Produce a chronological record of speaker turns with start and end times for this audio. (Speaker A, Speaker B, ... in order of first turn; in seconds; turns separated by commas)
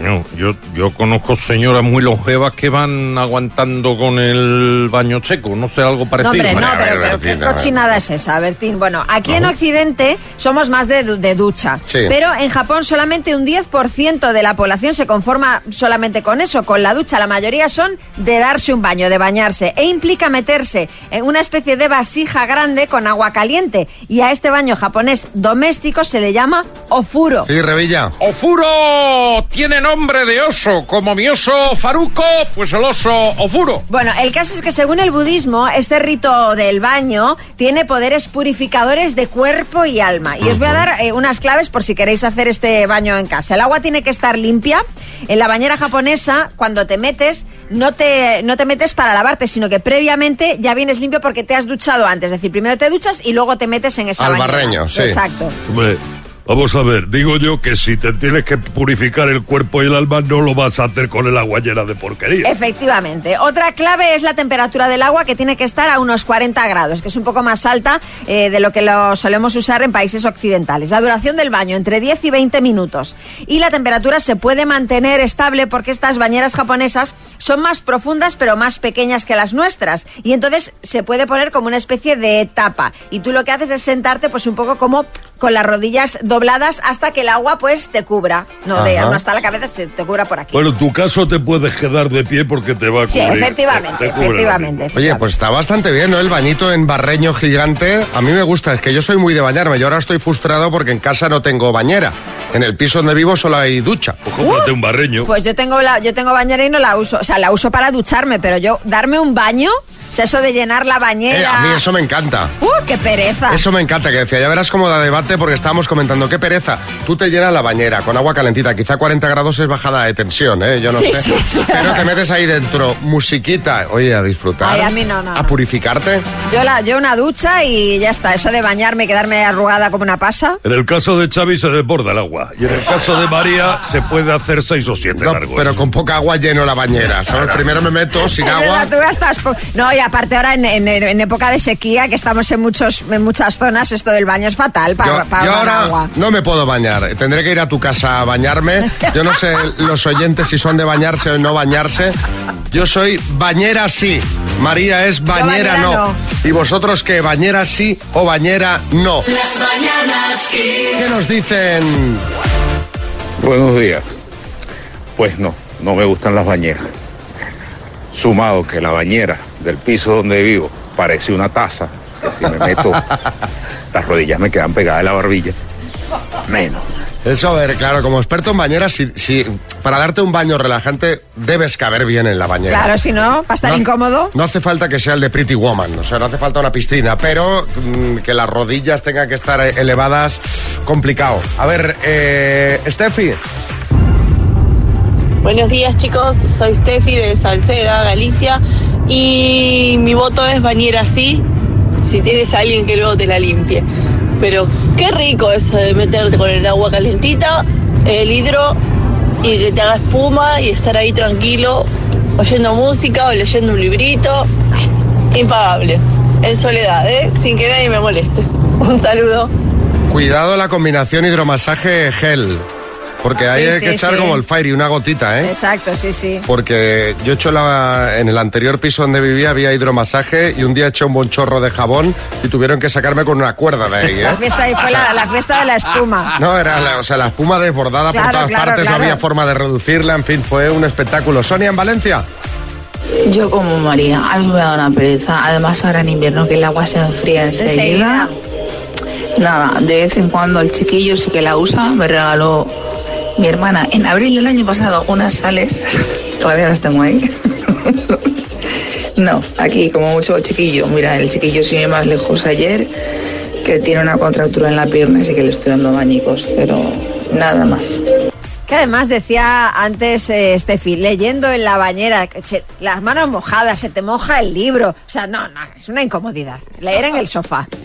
Speaker A: 5.2-6.7, Speaker B: 6.2-27.5, Speaker C: 6.4-7.8, Speaker C: 27.5-28.1, Speaker A: 28.4-33.8, Speaker B: 33.9-55.5, Speaker C: 54.2-55.2, Speaker D: 55.7-62.5, Speaker B: 62.4-90.7, Speaker C: 88.7-89.2, Speaker D: 90.5-94.8, Speaker B: 93.1-95.3, Speaker C: 94.9-104.2, Speaker D: 104.2-105.3, Speaker B: 104.4-104.7, Speaker B: 105.2-111.8, Speaker C: 111.3-112.5, Speaker B: 112.6-113.6, Speaker C: 113.5-126.2, Speaker B: 120.9-122.1, Speaker B: 124.6-125.5, Speaker B: 126.5-130.6, Speaker D: 130.6-135.7, Speaker C: 135.2-138.9, Speaker B: 138.4-146.1, Speaker C: 145.0-152.1, Speaker C: 152.7-159.3, Speaker B: 155.3-156.2, Speaker C: 160.9-162.2, Speaker E: 163.4-164.2, Speaker E: 165.2-166.9, Speaker E: 168.1-173.1, Speaker C: 172.4-172.9, Speaker E: 173.9-175.6, Speaker E: 176.4-176.9, Speaker C: 177.2-182.9, Speaker B: 182.7-184.3, Speaker C: 183.6-193.4, Speaker F: 195.4-201.4, Speaker F: 202.1-203.8, Speaker F: 204.4-208.8, Speaker F: 209.4-211.9, Speaker F: 212.4-214.5, Speaker F: 215.3-219.5, Speaker C: 220.1-222.7, Speaker C: 223.2-225.5, Speaker B: 223.4-224.4, Speaker B: 225.4-226.4, Speaker C: 226.5-235.1, Speaker B: 234.2-236.3, Speaker C: 236.3-242.2, Speaker B: 238.1-239.2, Speaker G: 243.3-248.3, Speaker B: 247.6-248.3, Speaker G: 249.4-252.8, Speaker G: 253.4-258.3, Speaker G: 259.2-262.9, Speaker G: 263.6-268.0, Speaker B: 268.7-277.7